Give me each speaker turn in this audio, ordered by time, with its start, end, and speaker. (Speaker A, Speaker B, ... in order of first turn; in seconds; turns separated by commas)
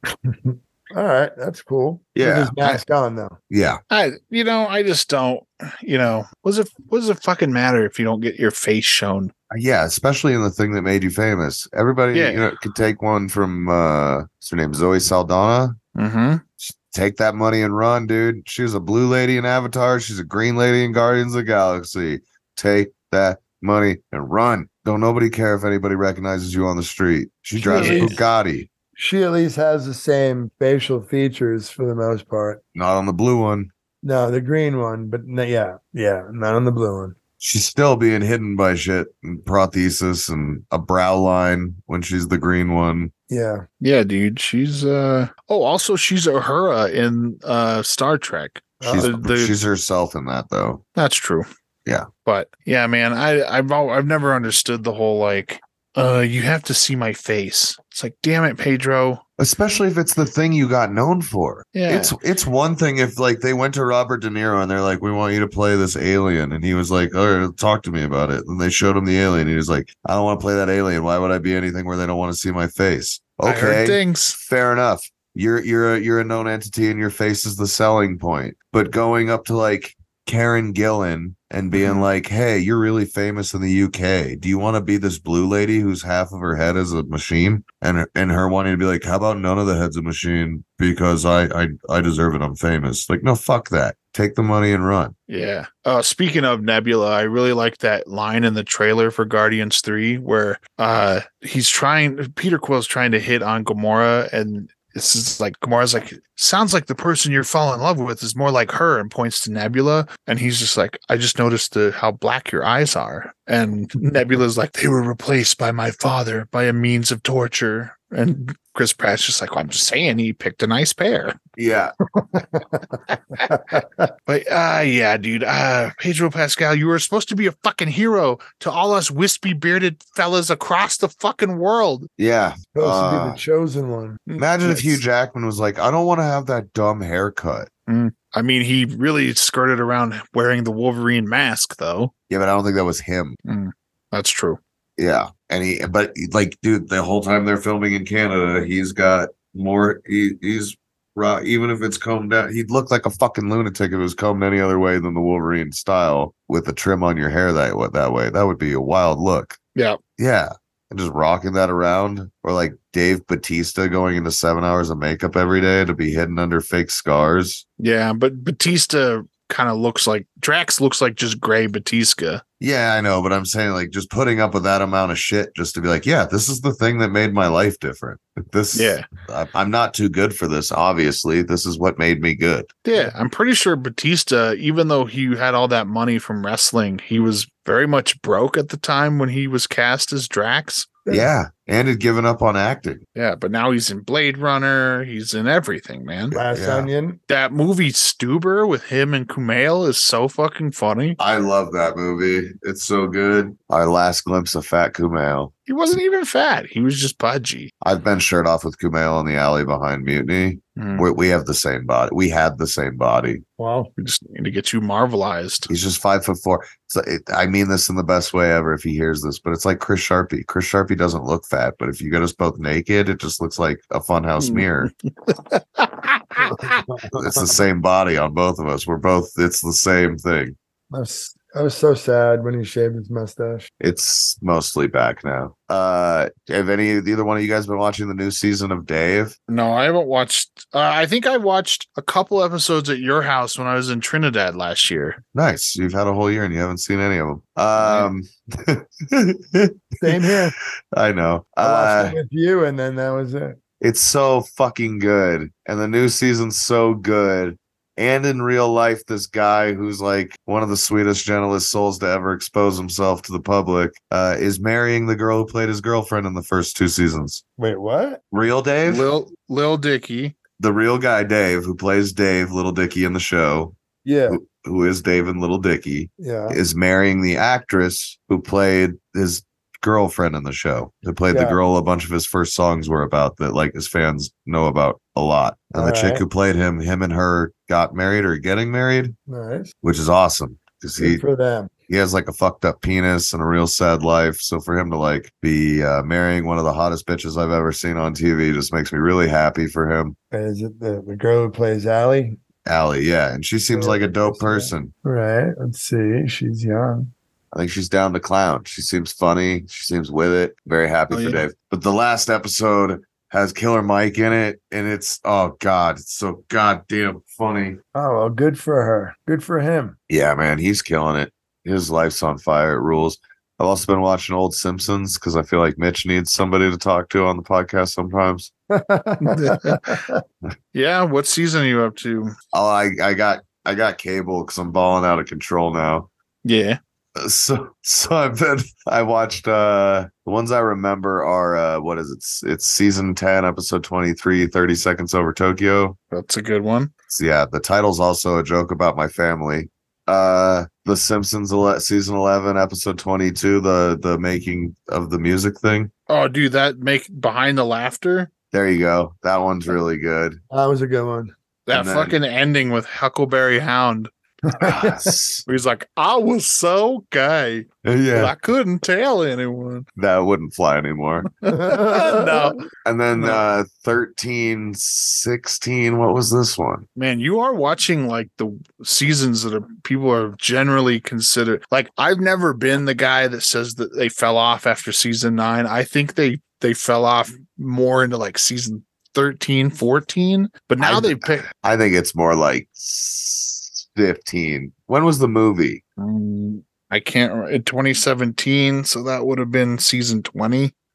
Speaker A: 0.2-3.4, Speaker B: 2.2-2.8, Speaker B: 3.5-3.8, Speaker C: 3.9-9.3, Speaker B: 9.5-15.8, Speaker C: 12.1-12.4, Speaker C: 15.9-16.4, Speaker B: 16.6-28.7, Speaker A: 27.6-28.2, Speaker C: 27.7-28.2, Speaker A: 29.0-32.6, Speaker B: 32.8-33.7, Speaker A: 34.0-37.1, Speaker B: 37.4-43.1, Speaker A: 43.3-43.6, Speaker C: 43.8-49.6, Speaker A: 48.8-49.1, Speaker B: 48.8-50.8, Speaker C: 51.0-51.5, Speaker C: 52.2-59.2, Speaker B: 59.4-95.2, Speaker C: 61.7-62.1, Speaker C: 73.4-74.4, Speaker C: 81.7-82.1, Speaker C: 95.3-121.4, Speaker B: 121.6-121.9, Speaker A: 122.2-124.1, Speaker C: 124.3-132.1, Speaker B: 132.2-133.4, Speaker A: 132.8-134.2, Speaker C: 134.3-135.0, Speaker B: 134.4-137.7, Speaker C: 137.9-142.1, Speaker B: 142.3-143.4, Speaker C: 143.5-144.6, Speaker B: 145.0-159.6, Speaker B: 160.2-167.6, Speaker C: 167.8-172.4, Speaker B: 172.6-182.7, Speaker C: 178.7-179.1, Speaker C: 182.8-191.0, Speaker A: 191.1-191.3, Speaker B: 191.1-193.0, Speaker C: 193.2-196.3, Speaker B: 196.3-196.9, Speaker A: 196.3-197.2, Speaker C: 197.3-201.2, Speaker B: 201.2-205.5, Speaker C: 205.7-207.7, Speaker B: 207.8-213.4, Speaker C: 210.8-211.1, Speaker A: 213.6-213.9, Speaker C: 214.0-215.7, Speaker B: 215.7-224.9, Speaker C: 224.4-226.8, Speaker A: 226.5-227.1, Speaker B: 227.1-230.6, Speaker A: 230.9-233.7, Speaker B: 233.8-239.3, Speaker C: 239.5-245.2, Speaker B: 245.3-252.2, Speaker C: 247.8-248.1, Speaker A: 250.0-250.6, Speaker A: 251.6-253.6, Speaker B: 253.8-267.4, Speaker A: 267.6-268.2, Speaker B: 268.3-269.1, Speaker C: 268.9-270.4, Speaker B: 270.6-273.8, Speaker A: 274.1-274.4, Speaker B: 274.3-289.1, Speaker A: 276.2-276.6, Speaker A: 281.3-281.6, Speaker A: 285.8-286.2, Speaker A: 289.3-289.7, Speaker B: 289.8-291.2, Speaker A: 291.0-291.7, Speaker B: 291.9-300.2, Speaker A: 300.3-302.4, Speaker B: 302.6-304.9, Speaker A: 303.7-307.1, Speaker B: 307.5-317.8, Speaker C: 311.1-311.4, Speaker A: 317.9-320.0, Speaker B: 320.1-328.5, Speaker A: 328.7-330.2, Speaker C: 329.2-330.0, Speaker C: 330.7-332.4, Speaker B: 332.5-336.1, Speaker C: 336.4-336.8, Speaker B: 337.2-346.0, Speaker C: 346.1-346.9, Speaker B: 347.1-355.9, Speaker C: 356.1-358.3, Speaker B: 358.5-360.4, Speaker A: 360.5-361.3, Speaker C: 361.7-364.1, Speaker B: 361.7-362.2, Speaker A: 364.5-365.0, Speaker B: 364.6-365.4, Speaker C: 365.5-369.9, Speaker B: 367.9-368.3, Speaker B: 370.0-371.3, Speaker C: 371.4-372.6, Speaker A: 371.5-372.6, Speaker B: 372.8-376.9, Speaker C: 373.2-373.4, Speaker C: 377.0-391.4, Speaker B: 390.8-395.8, Speaker C: 396.0-400.7